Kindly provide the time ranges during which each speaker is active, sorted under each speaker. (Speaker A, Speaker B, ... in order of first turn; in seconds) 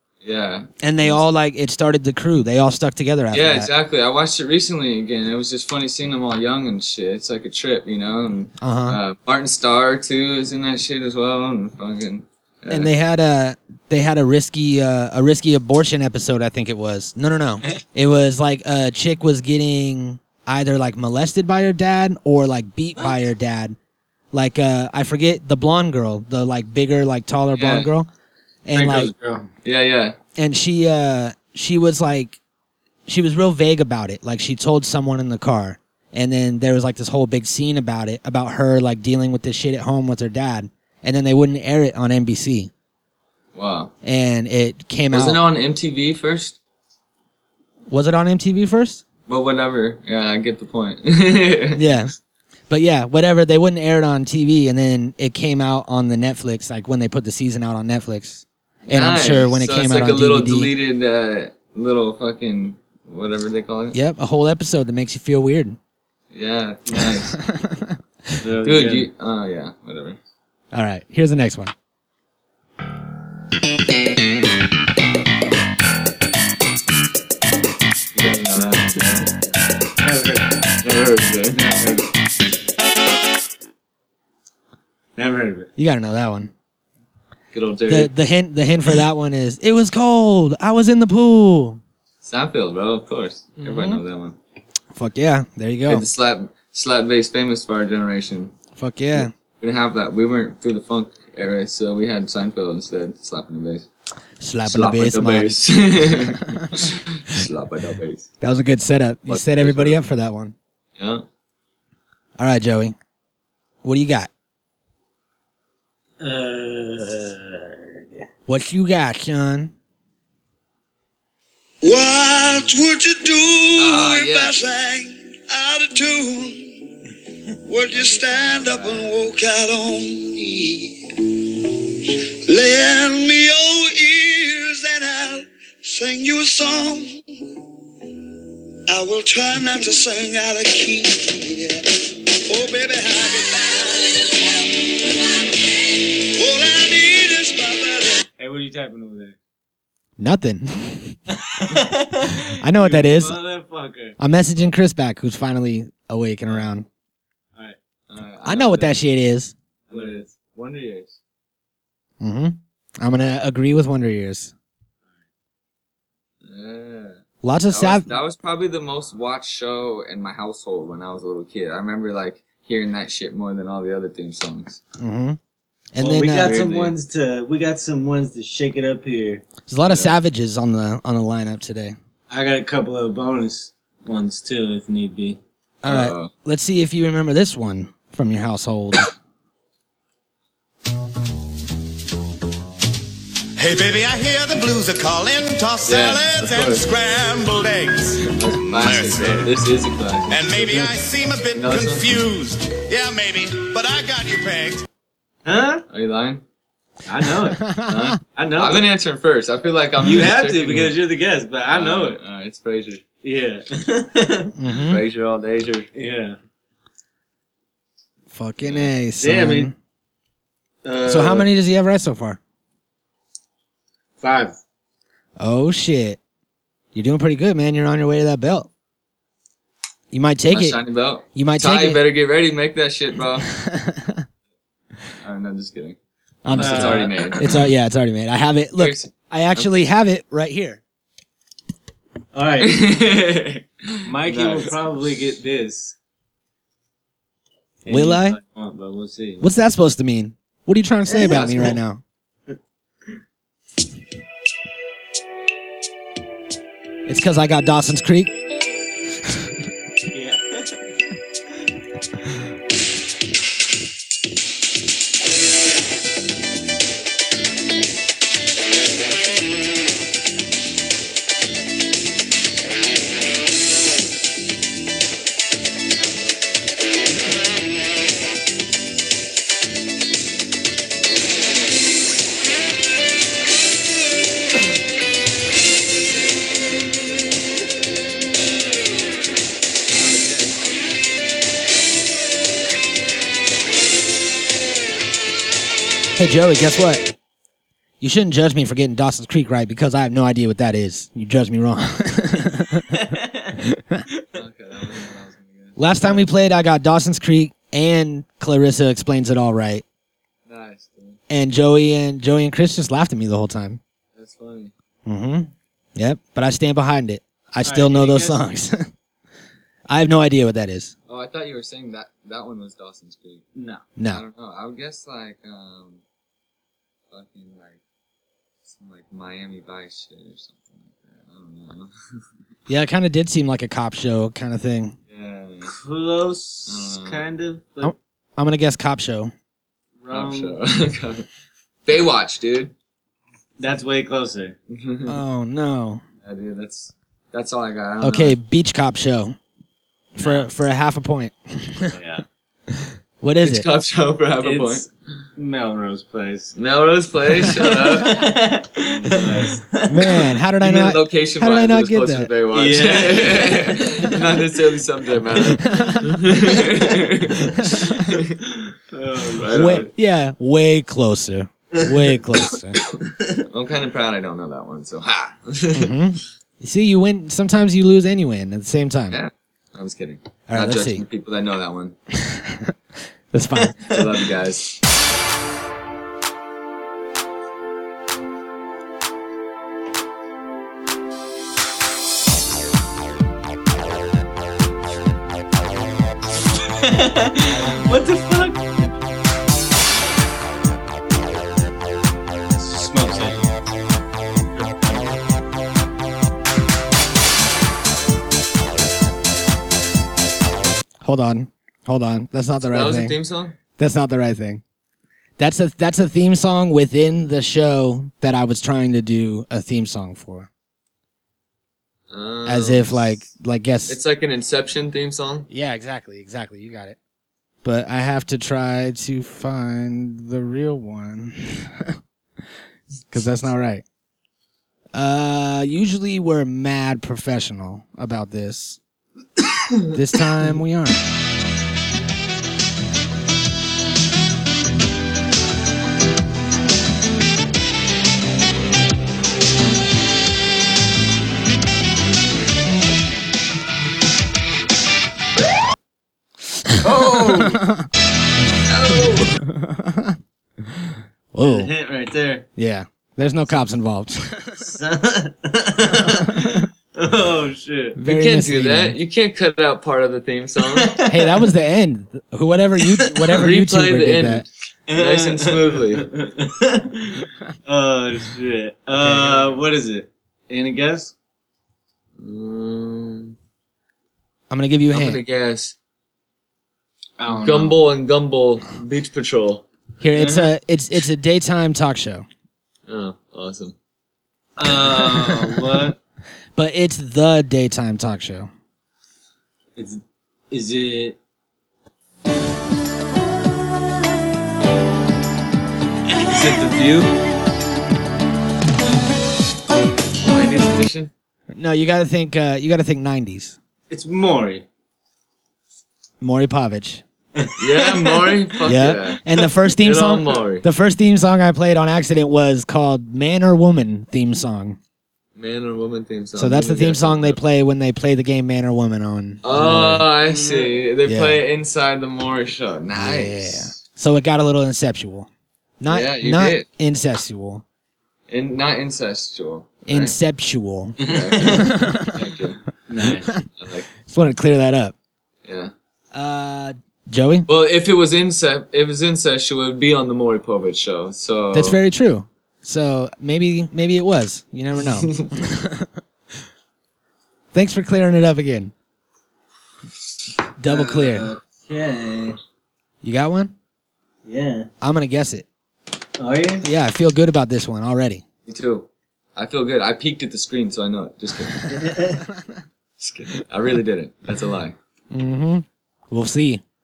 Speaker A: 0.2-1.2, 3.3-12.9, 27.5-27.9, 29.6-30.1, 43.5-43.9, 45.1-46.6, 49.3-52.0, 58.9-64.0, 66.3-67.4, 68.6-70.2, 78.1-79.4, 80.8-81.7, 87.5-88.1, 92.2-94.3, 95.9-98.5, 99.1-103.9, 104.6-108.3, 109.3-110.0, 111.0-111.2, 123.8-124.5, 127.9-129.2, 158.1-158.9, 159.9-161.2, 166.4-174.8, 176.3-176.9, 179.9-180.1, 185.8-186.3, 195.8-196.9, 198.3-200.4, 201.5-202.1, 205.9-206.4, 207.9-210.9, 211.7-213.0, 214.7-215.9, 218.6-218.9, 230.5-233.5, 235.2-237.7, 238.8-239.7, 242.6-244.8, 251.2-251.8, 289.9-290.6, 304.3-305.9, 310.5-311.2, 314.1-314.7, 321.1-323.4, 324.1-326.0, 327.1-327.8, 328.7-331.9, 335.1-335.7, 336.7-337.2, 340.1-341.2, 341.8-342.7, 344.7-345.2, 346.2-348.4, 353.4-354.9, 356.6-358.3, 359.1-359.6, 360.6-368.4, 369.3-369.9, 373.4-375.9, 379.1-381.9, 383.8-384.7, 412.6-413.6, 422.1-423.2, 423.9-425.5, 458.7-459.3, 468.1-471.0, 473.3-476.1, 482.2-483.3, 484.9-485.7, 487.3-489.6, 492.9-493.7, 506.3-507.0, 510.2-511.1, 517.6-519.2, 519.8-520.6, 525.4-527.4, 529.4-533.8, 535.9-536.6, 538.3-540.1, 541.0-542.6, 543.6-543.9, 545.4-545.7, 547.5-551.8, 554.9-555.3, 568.5-571.8, 573.0-574.8
Speaker B: 0.8-3.7, 8.6-9.0, 12.7-23.8, 24.3-28.1, 28.6-29.1, 30.4-32.4, 33.1-42.7, 44.0-45.4, 47.9-49.0, 51.7-52.1, 52.7-60.7, 63.9-65.8, 66.9-68.0, 70.7-71.7, 85.8-86.5, 87.9-91.8, 93.6-94.0, 94.9-96.0, 98.8-99.3, 104.4-106.9, 108.4-110.5, 112.4-112.9, 113.8-114.3, 118.5-119.7, 150.2-151.2, 152.6-153.4, 154.2-156.9, 158.4-159.5, 162.2-164.5, 167.4-168.1, 175.0-175.4, 175.9-176.6, 179.7-182.0, 185.8-189.1, 207.5-208.2, 214.6-215.0, 218.3-219.7, 221.1-222.4, 225.4-226.2, 226.9-228.7, 230.1-230.8, 231.3-232.0, 233.5-234.2, 236.4-240.8, 247.9-248.4, 249.4-252.0, 257.1-258.3, 296.1-297.1, 298.0-303.0, 303.6-304.0, 305.8-309.8, 311.3-313.8, 315.1-318.9, 319.9-320.9, 324.0-324.2, 332.7-334.9, 337.8-339.3, 345.1-346.0, 348.0-349.4, 350.1-352.0, 353.2-353.7, 359.9-362.3, 365.5-366.2, 367.6-368.1, 369.5-372.8, 375.7-379.2, 380.5-381.0, 382.1-382.7, 383.3-383.8, 411.0-413.1, 413.8-414.6, 415.4-420.5, 422.4-424.0, 425.5-427.0, 427.6-432.0, 433.1-433.8, 434.9-438.8, 439.9-441.0, 457.6-457.9, 459.4-460.2, 460.8-461.7, 462.6-464.7, 466.3-466.6, 468.0-468.9, 471.1-474.4, 478.9-479.5, 484.5-485.2, 490.0-492.2, 496.6-498.5, 511.5-513.6, 516.2-517.0, 518.6-524.8, 526.4-530.1, 531.0-531.4, 532.9-535.3, 535.8-537.6, 539.9-542.2, 543.0-543.4, 544.0-544.9, 546.1-547.5, 551.5-555.9, 557.5-558.7, 560.6-561.3, 563.0-563.5, 564.8-565.5, 566.6-568.2, 572.3-572.5, 575.1-576.6
Speaker C: 28.7-29.5, 68.4-69.1, 80.0-80.6, 81.5-82.0, 85.2-85.7, 116.2-118.2, 148.4-149.4, 151.3-154.2, 159.9-160.3, 176.0-179.4, 182.3-185.4, 205.4-205.8, 207.1-207.6, 208.3-208.8, 210.0-212.2, 213.2-214.5, 215.9-216.4, 219.2-219.7, 220.8-221.5, 224.2-224.6, 236.5-237.3, 242.3-242.8, 244.0-245.9, 247.8-249.5, 251.1-251.6, 260.1-260.8, 302.9-303.5, 317.6-318.4, 323.6-323.8, 335.7-337.9, 340.0-340.6, 343.6-344.5, 350.2-350.4, 351.9-352.2, 354.4-356.5, 357.6-360.1, 362.5-364.0, 368.9-369.8, 396.8-398.9, 402.5-403.5, 456.8-457.6, 461.4-462.5, 464.6-468.0, 470.8-471.4, 474.9-481.1, 487.2-487.8, 490.1-490.5, 494.6-496.0, 499.8-501.2, 506.2-507.1, 513.9-514.6, 517.4-518.3, 530.3-530.8, 541.0-541.6, 542.9-543.3, 560.7-562.4, 564.2-564.7, 566.2-566.6, 571.7-572.2
Speaker D: 121.8-126.8, 127.6-137.2, 138.9-144.9, 146.0-148.2
Speaker E: 193.6-199.5, 200.3-204.8